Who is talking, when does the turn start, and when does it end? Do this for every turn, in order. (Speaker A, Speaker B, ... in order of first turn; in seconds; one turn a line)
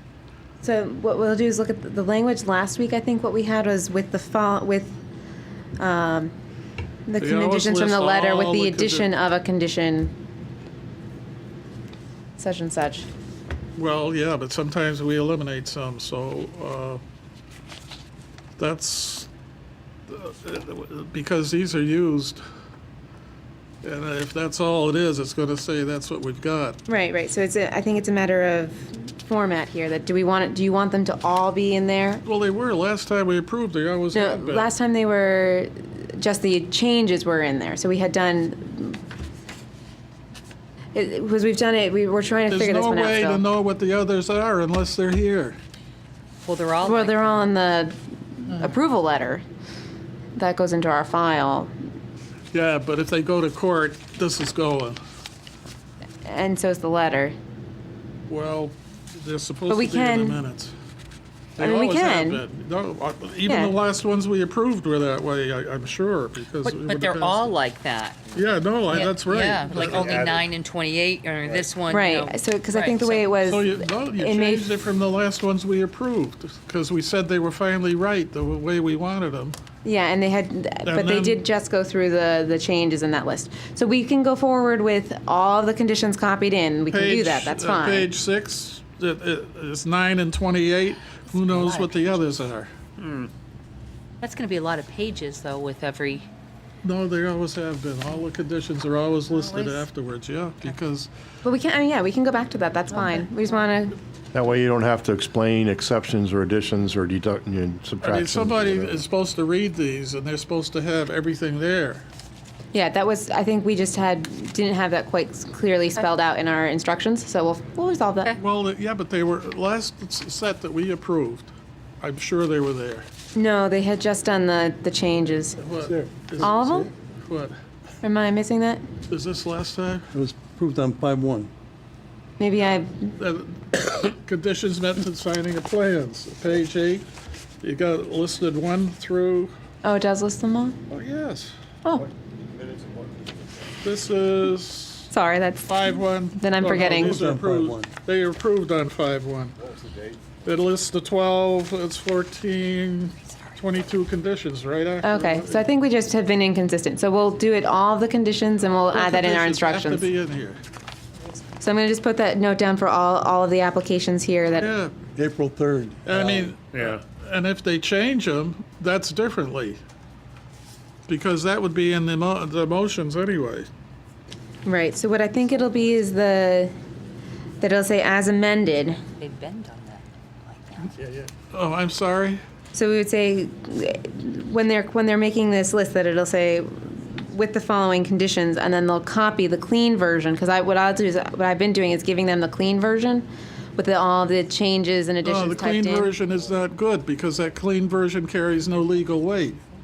Speaker A: 0.6-5.0
Speaker A: 5.8-6.3
Speaker A: 7.1-10.1
Speaker B: 7.2-9.1
Speaker A: 12.4-13.1
Speaker B: 13.8-17.0
Speaker B: 18.6-19.3
Speaker B: 20.1-22.4
Speaker B: 23.8-26.8
Speaker A: 26.9-32.2
Speaker B: 32.2-34.7
Speaker A: 34.1-39.0
Speaker A: 40.9-43.4
Speaker B: 42.5-45.6
Speaker C: 46.4-47.4
Speaker A: 46.8-49.4
Speaker A: 50.4-51.7
Speaker B: 52.5-55.0
Speaker A: 56.2-57.3
Speaker B: 58.3-60.7
Speaker A: 59.7-60.4
Speaker B: 61.6-67.5
Speaker A: 61.6-62.4
Speaker A: 63.5-63.7
Speaker C: 66.6-68.3
Speaker B: 68.3-70.2
Speaker C: 69.0-73.3
Speaker D: 69.7-70.4
Speaker A: 71.9-74.7
Speaker B: 73.4-79.5
Speaker A: 79.8-88.1
Speaker B: 80.8-81.4
Speaker B: 86.9-92.7
Speaker C: 91.3-92.2
Speaker C: 93.0-93.3
Speaker C: 94.2-96.3
Speaker B: 96.8-101.1
Speaker A: 101.4-104.0
Speaker D: 104.3-109.0
Speaker B: 108.0-112.0
Speaker A: 112.7-118.3
Speaker B: 118.4-123.0
Speaker A: 123.3-125.6
Speaker B: 125.6-127.5
Speaker E: 125.8-126.9
Speaker A: 126.4-126.9
Speaker A: 128.0-128.8
Speaker B: 129.1-130.1
Speaker E: 130.1-131.5
Speaker A: 132.4-133.1
Speaker B: 133.2-137.0
Speaker B: 137.6-139.5
Speaker A: 139.8-140.8
Speaker B: 140.9-141.5
Speaker A: 141.8-142.1
Speaker B: 143.8-145.1
Speaker A: 145.1-147.2
Speaker B: 145.7-149.6
Speaker E: 146.6-147.9
Speaker B: 150.4-155.7
Speaker A: 155.0-160.1
Speaker B: 158.9-160.6
Speaker A: 161.6-164.7
Speaker B: 164.6-164.9
Speaker E: 165.1-167.0
Speaker B: 166.0-169.8
Speaker B: 171.1-173.7
Speaker A: 174.6-176.7
Speaker A: 177.6-179.0
Speaker C: 179.2-180.9
Speaker B: 180.9-182.4
Speaker A: 182.7-196.1
Speaker B: 195.2-199.6